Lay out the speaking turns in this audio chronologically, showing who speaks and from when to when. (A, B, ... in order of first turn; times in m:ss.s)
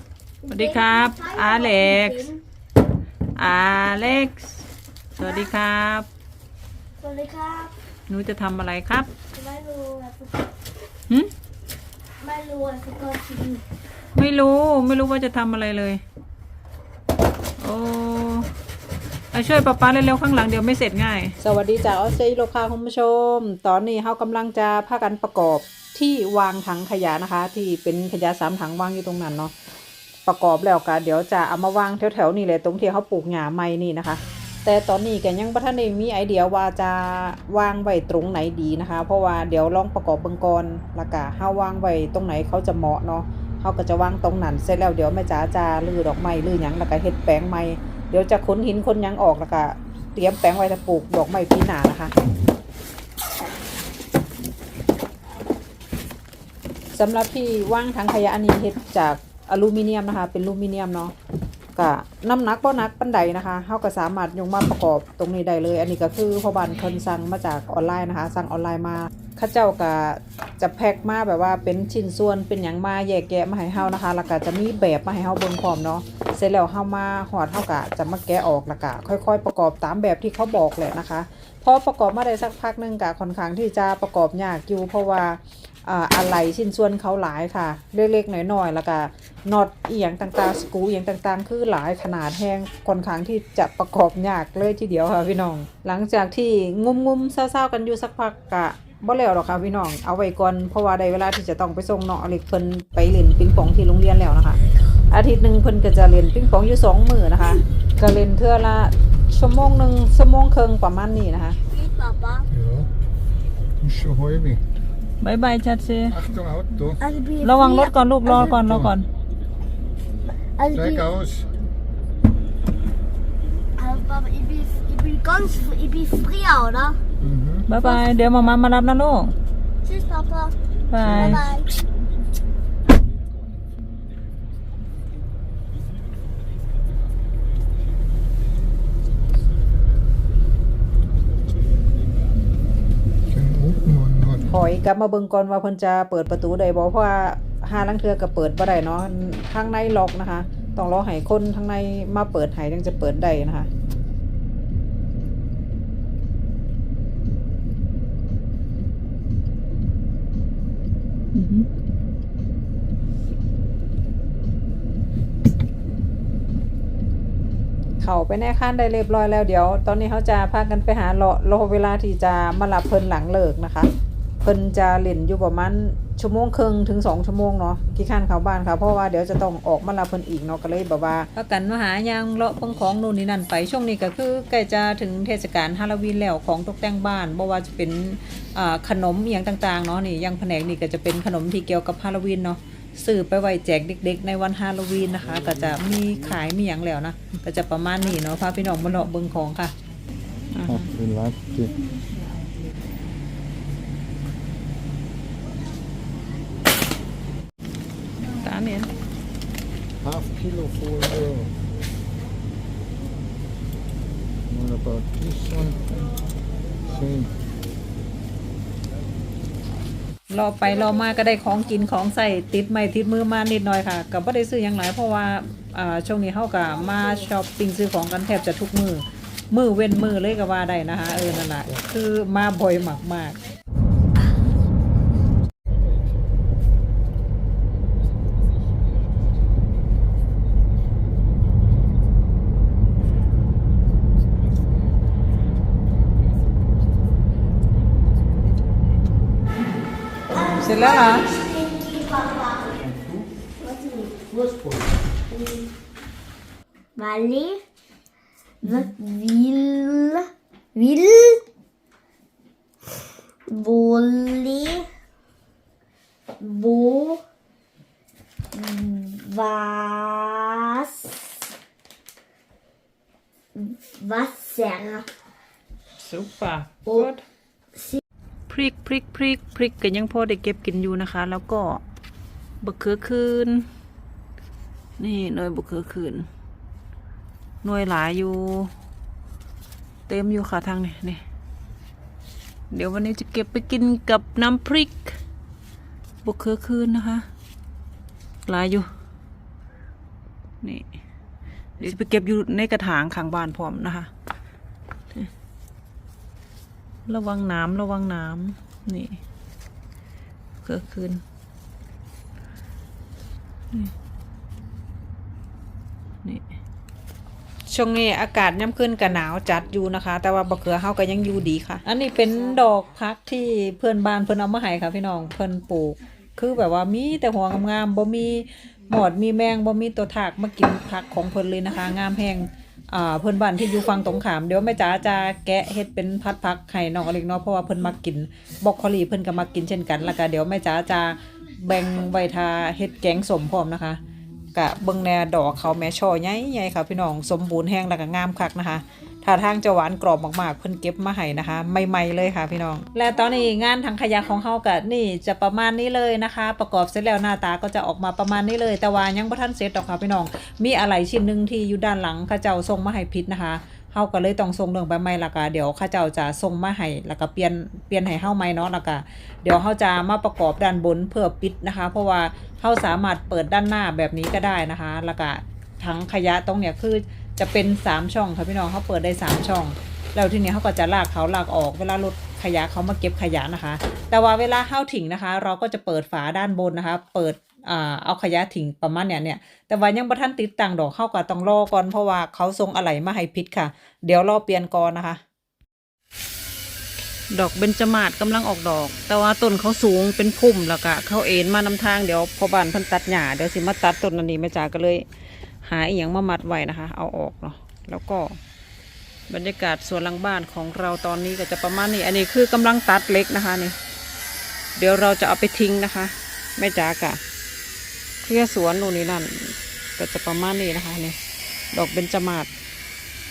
0:00.4-0:02.4 A
0:00.5-0:02.3 B
0:03.4-0:04.6 B
0:05.2-0:06.1 B
0:05.2-0:05.5 A
0:07.0-0:07.8 A
0:08.1-0:09.1 B
0:09.3-0:10.5 A
0:12.2-0:13.6 A
0:14.2-0:16.0 B
0:17.6-0:18.5 B
0:19.3-0:29.5 B
0:30.3-0:52.1 B
0:56.9-1:01.1 B
1:01.8-1:51.6 B
1:51.7-1:52.5 A
1:53.9-1:54.6 C
1:55.2-1:56.2 B
1:56.4-1:56.9 C
1:57.0-1:58.5 A
1:57.4-1:59.1 B
2:00.6-2:01.2 A
2:01.2-2:01.4 C
2:03.8-2:07.0 A
2:07.3-2:07.6 C
2:07.7-2:09.4 B
2:09.8-2:11.7 A
2:10.9-2:11.5 B
2:23.6-2:24.3 C
2:24.4-2:33.7 B
2:41.3-2:41.7 B
2:48.0-2:53.9 B
2:54.4-3:19.7 B
3:20.5-3:21.0 B
3:20.9-3:21.8 C
3:28.4-3:28.9 B
3:30.0-3:31.5 C
3:34.5-3:35.8 C
3:36.9-3:37.3 C
3:40.3-3:53.4 B
4:10.5-4:12.8 A
4:10.5-4:11.3 B
4:13.6-4:14.5 A
4:15.3-4:15.6 A
4:17.0-4:17.6 A
4:18.6-4:21.4 A
4:23.5-4:24.9 A
4:26.4-4:27.2 A
4:28.5-4:31.4 A
4:33.6-4:35.1 A
4:36.0-4:37.2 B
4:38.5-4:41.8 B
4:42.6-4:43.7 B
4:45.0-4:46.3 B
4:47.6-4:48.7 B
4:50.1-4:51.2 B
4:52.7-4:55.2 B
4:56.2-4:57.3 B
4:58.5-4:58.9 B
5:00.6-5:00.9 B
5:01.8-5:04.1 B
5:07.1-5:09.2 B
5:10.6-5:11.2 B
5:17.7-5:44.0 B
5:44.6-6:35.2 B
6:37.3-6:45.0 B
6:45.6-6:48.4 B
6:49.3-6:53.8 B
6:54.8-6:57.2 B
6:58.2-7:01.2 B
7:01.7-7:02.5 B